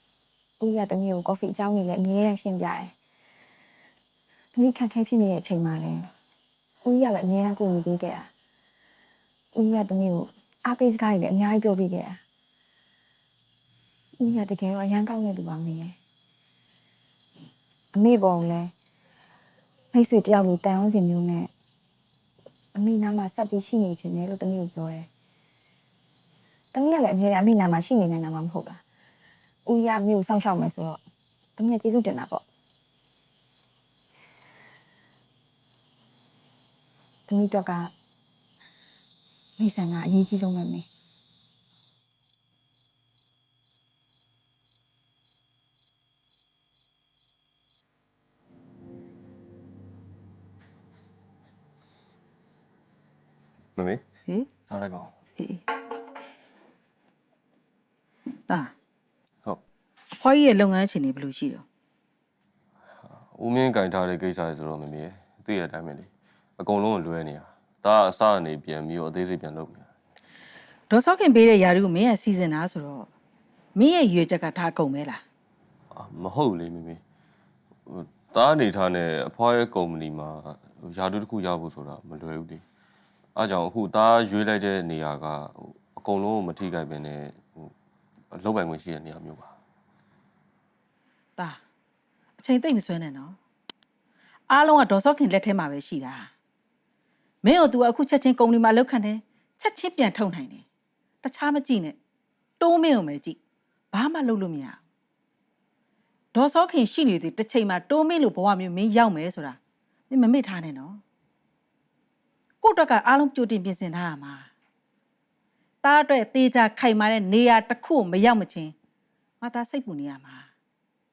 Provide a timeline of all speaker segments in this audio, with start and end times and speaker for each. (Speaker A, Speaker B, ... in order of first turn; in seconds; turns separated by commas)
Speaker A: 0.6-2.9, Speaker A: 4.5-6.1, Speaker A: 6.8-8.3, Speaker A: 9.5-12.2, Speaker A: 14.2-15.9, Speaker A: 17.9-18.7, Speaker A: 19.9-21.5, Speaker A: 22.7-25.1, Speaker A: 26.7-28.8, Speaker A: 29.7-31.0, Speaker A: 31.6-32.4, Speaker A: 37.3-37.9, Speaker A: 39.6-40.9, Speaker B: 53.8-54.0, Speaker B: 54.7-55.1, Speaker C: 58.5-58.7, Speaker C: 60.2-61.6, Speaker B: 63.0-69.9, Speaker C: 70.9-73.1, Speaker C: 73.8-75.2, Speaker B: 75.9-77.0, Speaker B: 77.9-82.6, Speaker B: 83.3-87.7, Speaker B: 88.3-89.5, Speaker C: 92.4-93.4, Speaker C: 94.5-96.3, Speaker C: 97.4-100.6, Speaker C: 101.2-102.0, Speaker C: 102.6-103.4, Speaker C: 103.9-104.8, Speaker C: 106.3-109.6, Speaker C: 110.1-111.0, Speaker C: 112.6-114.5, Speaker C: 115.8-118.7, Speaker C: 119.4-120.5